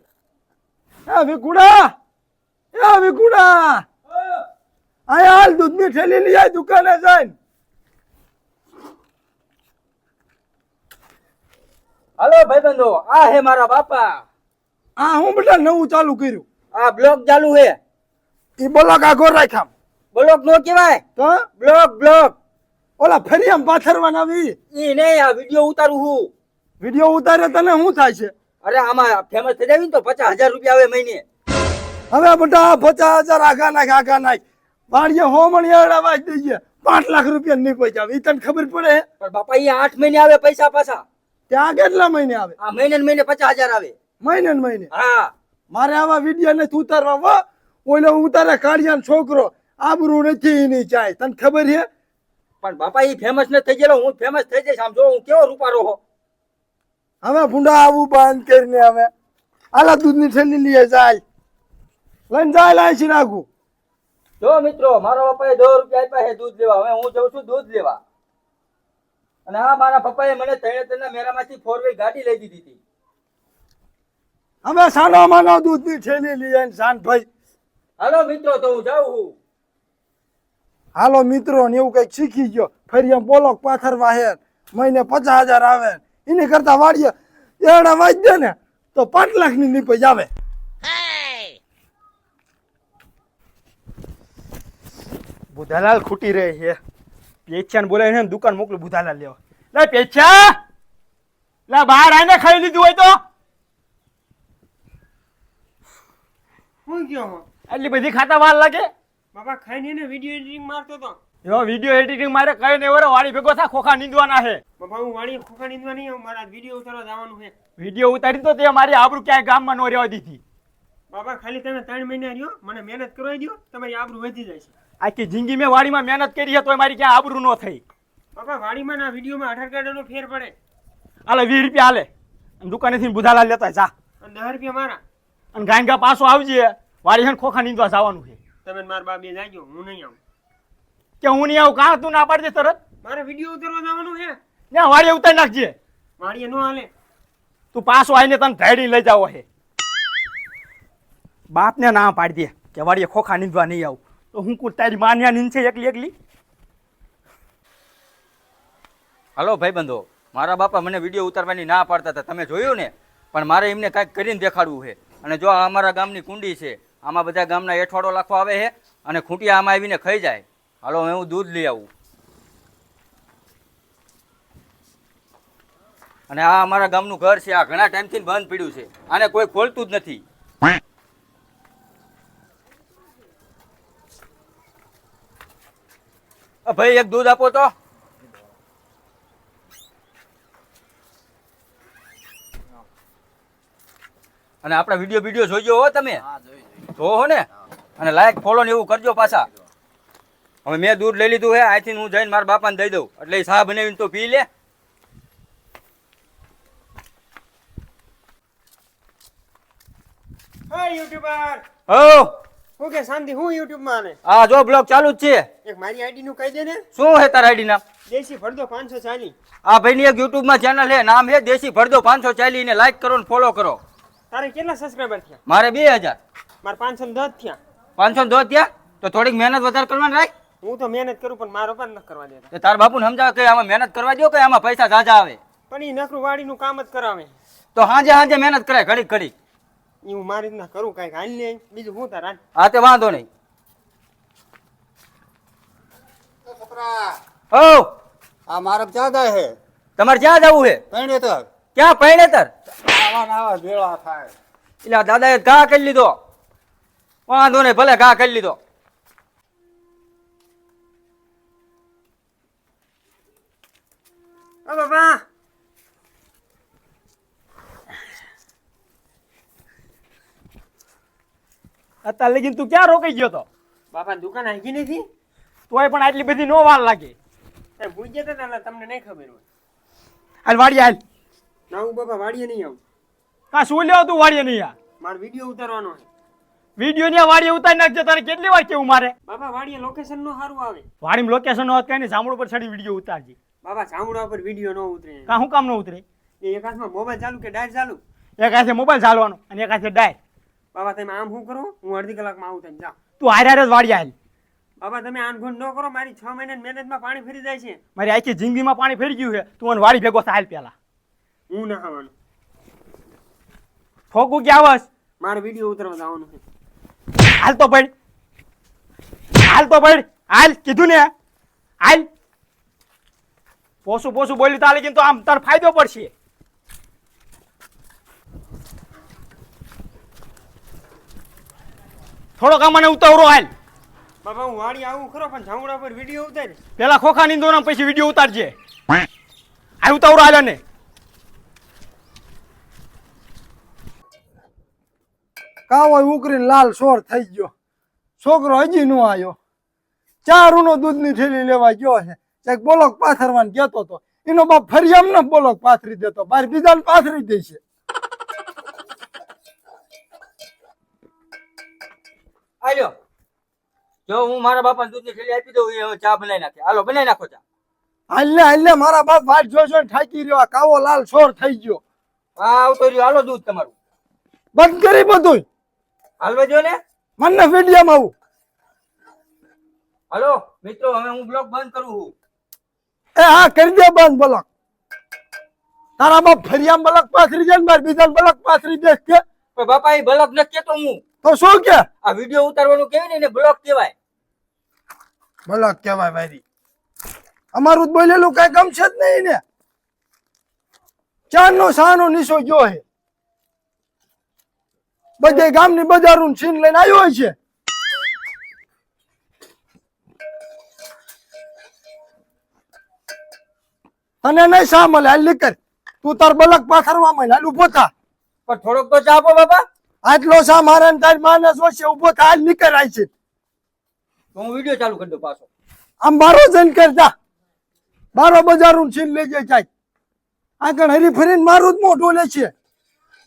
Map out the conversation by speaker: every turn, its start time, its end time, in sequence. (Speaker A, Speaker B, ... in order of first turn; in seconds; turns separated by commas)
Speaker A: 1.1-1.9, Speaker A: 2.7-3.8, Speaker A: 5.1-7.3, Speaker B: 12.2-14.2, Speaker A: 15.0-16.4, Speaker B: 16.7-17.8, Speaker A: 18.6-19.7, Speaker B: 20.1-21.0, Speaker A: 21.2-21.4, Speaker B: 21.6-22.3, Speaker A: 23.0-24.5, Speaker B: 24.7-26.3, Speaker A: 26.8-28.3, Speaker B: 28.6-31.2, Speaker A: 32.1-39.0, Speaker B: 39.2-41.0, Speaker A: 41.5-42.5, Speaker B: 42.6-43.9, Speaker A: 44.2-44.9, Speaker B: 44.9-45.3, Speaker A: 45.7-51.9, Speaker B: 52.6-56.0, Speaker A: 57.2-59.1, Speaker A: 59.7-61.2, Speaker A: 62.3-63.5, Speaker B: 64.4-68.0, Speaker B: 69.5-72.8, Speaker A: 74.6-77.2, Speaker B: 78.0-79.3, Speaker A: 80.9-90.3, Speaker C: 95.5-96.8, Speaker C: 97.5-100.5, Speaker C: 101.7-103.1, Speaker D: 106.8-107.5, Speaker C: 107.7-108.9, Speaker D: 109.3-111.2, Speaker C: 111.4-114.6, Speaker D: 114.8-117.5, Speaker C: 117.8-120.4, Speaker D: 121.1-124.7, Speaker C: 125.0-127.8, Speaker D: 128.3-130.5, Speaker C: 131.3-132.1, Speaker C: 132.6-133.9, Speaker D: 134.2-135.0, Speaker C: 135.5-138.4, Speaker D: 138.6-140.2, Speaker C: 141.2-142.8, Speaker D: 143.0-144.4, Speaker C: 144.7-145.7, Speaker D: 146.2-146.9, Speaker C: 147.7-149.4, Speaker C: 151.5-156.1, Speaker B: 159.4-171.9, Speaker B: 176.3-180.2, Speaker B: 186.7-187.7, Speaker B: 194.6-196.2, Speaker B: 197.0-197.4, Speaker B: 198.0-199.5, Speaker B: 200.7-204.5, Speaker D: 210.7-211.6, Speaker B: 211.9-212.3, Speaker D: 212.8-214.2, Speaker B: 214.2-215.4, Speaker D: 215.6-216.8, Speaker B: 216.9-217.8, Speaker D: 218.1-219.3, Speaker B: 219.6-223.8, Speaker D: 224.3-225.4, Speaker B: 225.5-226.2, Speaker D: 226.6-227.6, Speaker B: 228.0-230.3, Speaker D: 230.6-232.5, Speaker B: 232.5-235.4, Speaker D: 235.7-237.3, Speaker B: 237.7-239.3, Speaker D: 240.0-242.4, Speaker B: 242.6-243.3, Speaker E: 246.5-247.2, Speaker B: 247.5-247.9, Speaker E: 248.5-249.6, Speaker B: 250.0-250.8, Speaker E: 250.9-251.5, Speaker B: 251.7-252.5, Speaker E: 252.8-254.3, Speaker B: 254.8-256.2, Speaker B: 257.3-258.6, Speaker D: 264.7-265.2, Speaker C: 272.0-273.4, Speaker D: 273.9-275.0, Speaker C: 275.7-277.1, Speaker D: 277.8-279.4, Speaker C: 280.4-281.0, Speaker D: 281.7-282.8, Speaker C: 283.5-284.7, Speaker D: 285.0-286.1, Speaker C: 286.8-289.1, Speaker D: 289.3-290.8, Speaker C: 291.0-293.3, Speaker D: 293.6-295.4, Speaker C: 295.3-296.0, Speaker D: 296.4-298.0, Speaker C: 298.4-300.1, Speaker D: 300.7-303.0, Speaker C: 303.2-304.1, Speaker D: 304.8-307.8, Speaker C: 307.9-310.7, Speaker D: 311.5-312.1, Speaker C: 314.1-314.9, Speaker D: 315.2-316.4, Speaker C: 317.4-317.9, Speaker C: 319.5-321.1, Speaker C: 321.8-322.1, Speaker C: 323.9-326.1, Speaker C: 332.4-333.5, Speaker D: 334.2-336.6, Speaker C: 336.8-338.5, Speaker C: 339.8-340.6, Speaker A: 345.7-347.5, Speaker A: 348.2-349.4, Speaker A: 350.2-357.6, Speaker B: 362.6-362.9, Speaker B: 364.1-367.4, Speaker A: 368.1-371.8, Speaker B: 372.4-373.7, Speaker A: 374.5-375.4, Speaker B: 376.2-376.8, Speaker A: 377.2-378.1, Speaker B: 380.1-382.1, Speaker A: 383.1-384.4, Speaker A: 386.0-389.2, Speaker B: 389.5-391.0, Speaker A: 391.2-391.9, Speaker B: 392.0-393.9, Speaker A: 395.5-396.4, Speaker A: 397.5-399.4, Speaker A: 401.3-402.8, Speaker A: 405.2-407.3, Speaker A: 414.2-417.9, Speaker B: 418.5-419.6, Speaker A: 420.0-423.1, Speaker B: 424.3-425.5, Speaker A: 426.0-427.1, Speaker A: 428.1-429.7, Speaker A: 430.6-432.5